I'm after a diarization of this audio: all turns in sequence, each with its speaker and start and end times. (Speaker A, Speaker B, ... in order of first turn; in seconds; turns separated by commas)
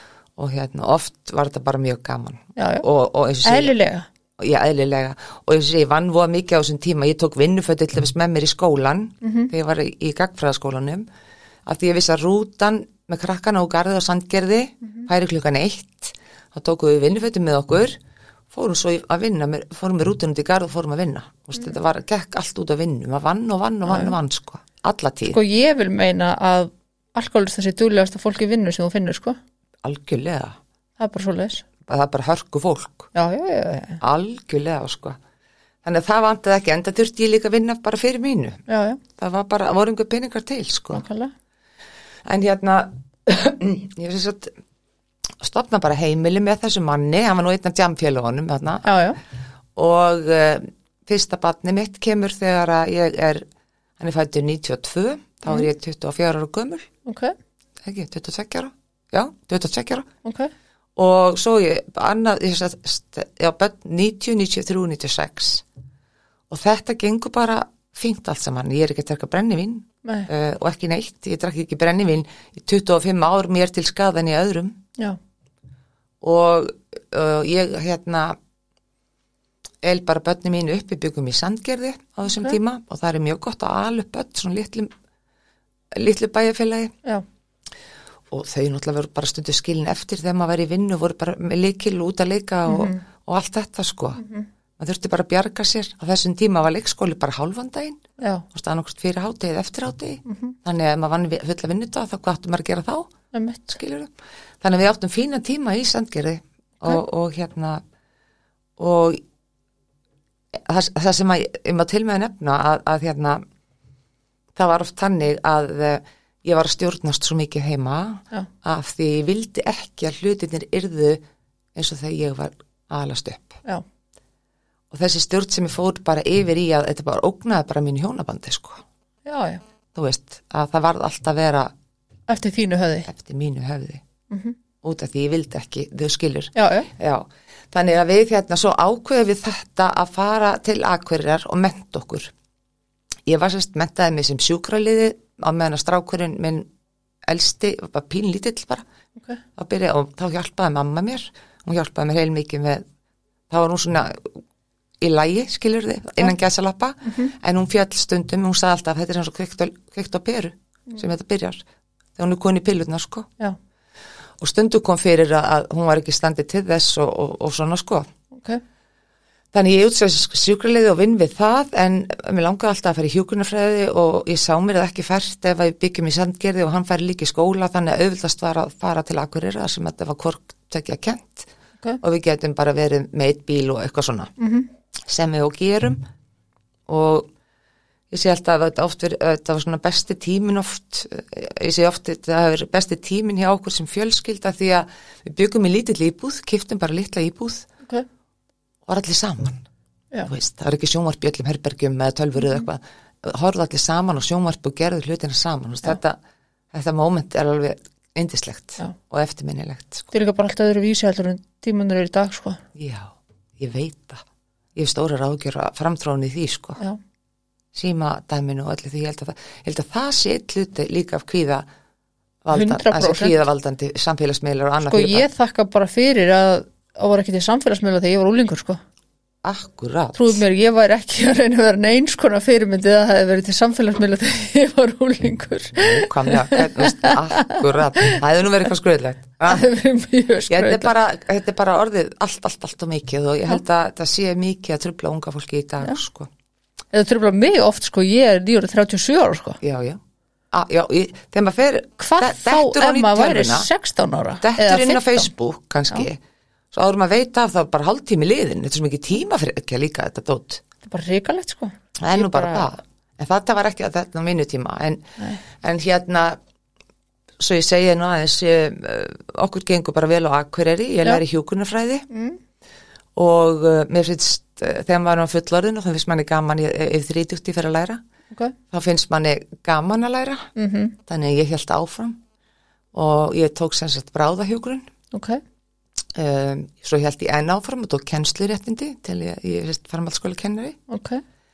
Speaker A: 0.3-3.7, Speaker B: 2.5-2.9, Speaker B: 3.4-4.1, Speaker A: 4.4-11.1, Speaker B: 9.2-9.5, Speaker A: 11.7-18.0, Speaker A: 18.5-25.4, Speaker B: 23.9-24.1, Speaker B: 25.3-29.4, Speaker A: 29.8-30.6, Speaker B: 31.0-31.6, Speaker A: 31.8-33.1, Speaker B: 33.1-34.0, Speaker A: 34.0-35.2, Speaker A: 35.8-38.6, Speaker B: 38.7-39.0, Speaker A: 39.2-41.0, Speaker B: 40.9-41.3, Speaker A: 42.2-44.5, Speaker A: 45.4-48.9, Speaker B: 48.8-49.2, Speaker A: 49.8-53.4, Speaker A: 54.0-56.9, Speaker B: 57.0-57.3, Speaker A: 57.8-60.1, Speaker B: 60.2-60.5, Speaker A: 61.0-65.6, Speaker A: 66.5-74.8, Speaker B: 70.0-70.3, Speaker A: 76.2-78.3, Speaker A: 79.8-84.9, Speaker B: 82.2-82.6, Speaker A: 85.9-86.9, Speaker A: 88.3-94.2, Speaker B: 92.7-93.0, Speaker B: 94.2-94.5, Speaker A: 94.8-98.0, Speaker B: 98.2-98.4, Speaker A: 98.5-103.1, Speaker B: 100.2-100.5, Speaker B: 103.3-103.8, Speaker A: 103.7-107.8, Speaker A: 108.8-109.2, Speaker A: 110.5-113.4, Speaker A: 114.5-121.2, Speaker A: 121.7-123.6, Speaker A: 124.9-128.8, Speaker B: 129.2-129.6, Speaker A: 129.9-131.7, Speaker B: 132.3-133.1, Speaker A: 133.1-134.0, Speaker B: 134.3-134.6, Speaker A: 134.8-142.3, Speaker B: 136.6-136.9, Speaker A: 143.2-146.7, Speaker A: 147.2-148.8, Speaker A: 149.6-152.8, Speaker A: 153.5-154.4, Speaker A: 155.0-161.6, Speaker B: 157.0-157.3, Speaker A: 162.2-163.3, Speaker A: 164.4-168.1, Speaker B: 168.3-168.6, Speaker A: 169.5-181.5, Speaker A: 182.0-184.3, Speaker B: 184.4-184.7, Speaker A: 185.1-186.0, Speaker A: 186.9-187.3, Speaker A: 188.1-197.7, Speaker A: 198.9-199.6, Speaker A: 200.2-206.2, Speaker A: 206.7-210.1, Speaker B: 210.1-212.6, Speaker A: 212.7-216.8, Speaker A: 217.7-221.7, Speaker A: 222.4-225.2, Speaker B: 222.5-223.4, Speaker B: 224.8-228.8, Speaker A: 229.4-230.4, Speaker B: 230.1-238.2, Speaker A: 235.8-239.7, Speaker B: 239.4-240.9, Speaker A: 240.5-246.3, Speaker B: 246.9-249.6, Speaker A: 249.6-250.0, Speaker A: 250.5-253.7, Speaker B: 252.0-255.3, Speaker A: 254.4-256.2, Speaker A: 256.7-260.6, Speaker B: 260.8-262.7, Speaker A: 262.0-266.4, Speaker B: 265.2-265.4, Speaker A: 267.4-272.1, Speaker B: 272.1-272.4, Speaker A: 273.1-278.0, Speaker B: 278.3-278.6, Speaker A: 278.7-280.5, Speaker B: 280.6-281.0, Speaker A: 281.1-282.2, Speaker A: 282.9-284.9, Speaker B: 285.1-285.4, Speaker A: 286.1-290.8, Speaker B: 290.9-291.2